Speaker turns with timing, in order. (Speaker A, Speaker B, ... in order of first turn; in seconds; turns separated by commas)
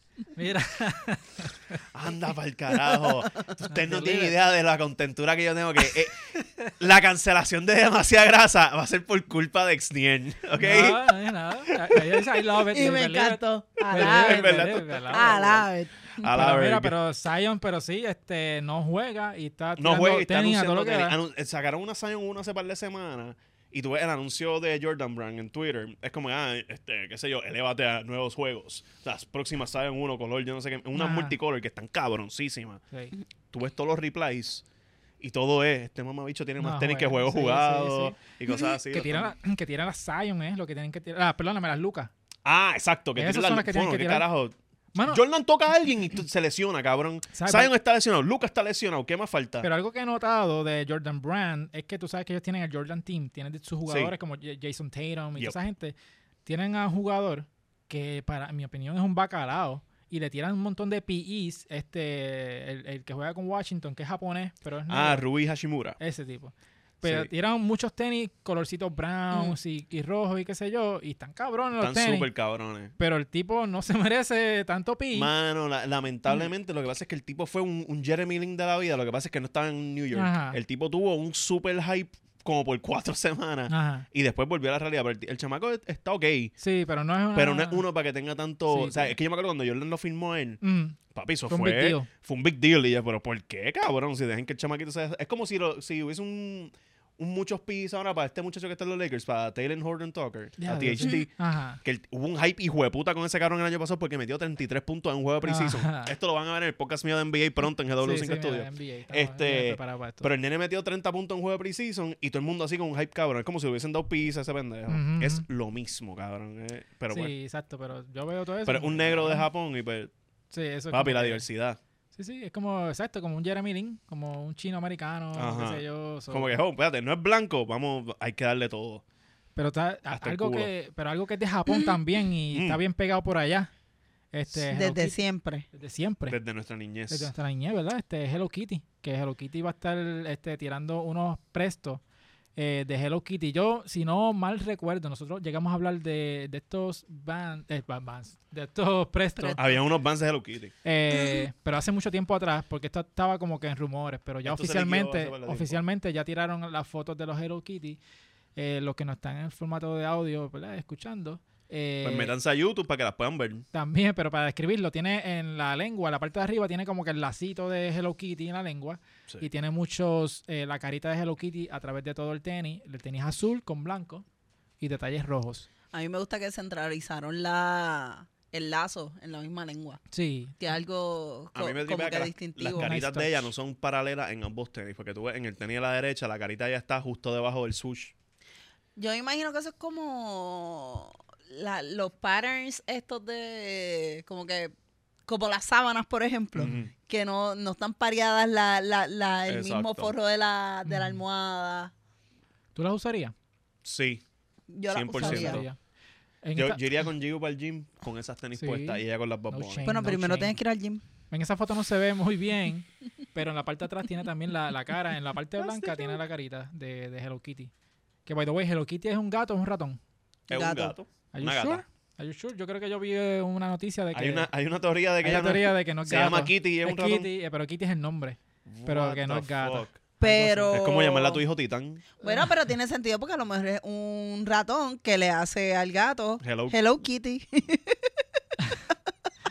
Speaker A: 0.3-1.8, Speaker B: 1.9-11.2, Speaker A: 3.7-4.3, Speaker A: 10.6-15.4, Speaker B: 11.7-12.0, Speaker C: 12.7-16.2, Speaker B: 13.9-17.0, Speaker A: 16.2-21.2, Speaker B: 19.8-32.8, Speaker A: 30.9-31.4, Speaker B: 33.5-34.6, Speaker B: 35.2-39.4, Speaker A: 36.6-38.2, Speaker A: 38.9-42.1, Speaker B: 42.5-44.5, Speaker A: 43.2-44.3, Speaker A: 44.9-45.2, Speaker B: 45.1-49.7, Speaker A: 47.3-47.7, Speaker A: 49.6-65.2, Speaker B: 53.9-54.1, Speaker B: 64.9-66.0, Speaker A: 66.0-72.3, Speaker B: 67.0-67.3, Speaker B: 71.8-72.9, Speaker A: 73.0-75.3, Speaker B: 75.1-86.5, Speaker A: 80.1-80.6, Speaker A: 83.7-84.1, Speaker A: 86.6-87.8, Speaker B: 87.3-90.6, Speaker A: 88.7-89.1, Speaker A: 90.6-92.1, Speaker B: 91.1-117.3, Speaker A: 100.6-101.8, Speaker A: 105.4-106.1, Speaker A: 108.0-110.3, Speaker A: 114.9-115.5, Speaker A: 117.1-119.5, Speaker B: 118.7-120.1, Speaker A: 120.5-121.5, Speaker B: 120.9-121.8, Speaker A: 122.1-126.5, Speaker B: 125.3-129.0, Speaker A: 129.6-133.7, Speaker B: 130.1-130.7, Speaker B: 132.5-132.8, Speaker A: 134.3-135.2, Speaker C: 134.7-135.7, Speaker A: 135.7-136.4, Speaker B: 136.3-137.3, Speaker A: 137.1-142.0, Speaker A: 142.6-149.6, Speaker C: 149.4-149.8, Speaker B: 149.6-150.7, Speaker A: 150.8-158.0, Speaker C: 151.1-151.5, Speaker B: 154.4-155.8, Speaker A: 158.6-162.3, Speaker B: 162.0-163.7, Speaker A: 163.7-174.2, Speaker A: 174.8-175.7, Speaker C: 175.9-180.0, Speaker A: 180.1-180.6, Speaker C: 180.6-183.0, Speaker B: 181.6-188.1, Speaker A: 182.7-183.4, Speaker C: 189.0-194.7, Speaker C: 195.3-201.9, Speaker B: 196.6-196.9, Speaker B: 199.5-200.1, Speaker A: 200.9-201.2, Speaker A: 202.8-203.3, Speaker B: 203.8-204.2, Speaker C: 204.7-205.6, Speaker B: 204.9-205.7, Speaker A: 205.2-205.8, Speaker A: 206.4-206.8, Speaker B: 206.6-209.8, Speaker A: 208.6-210.6, Speaker C: 209.8-211.0, Speaker A: 211.3-217.7, Speaker B: 215.6-216.1, Speaker A: 218.3-220.0, Speaker C: 220.5-220.9, Speaker B: 220.5-221.8, Speaker A: 221.3-224.5, Speaker B: 224.1-227.3, Speaker A: 225.2-230.8, Speaker B: 228.7-230.0, Speaker C: 230.2-231.4, Speaker B: 230.7-232.1, Speaker C: 232.2-238.1, Speaker B: 236.4-236.8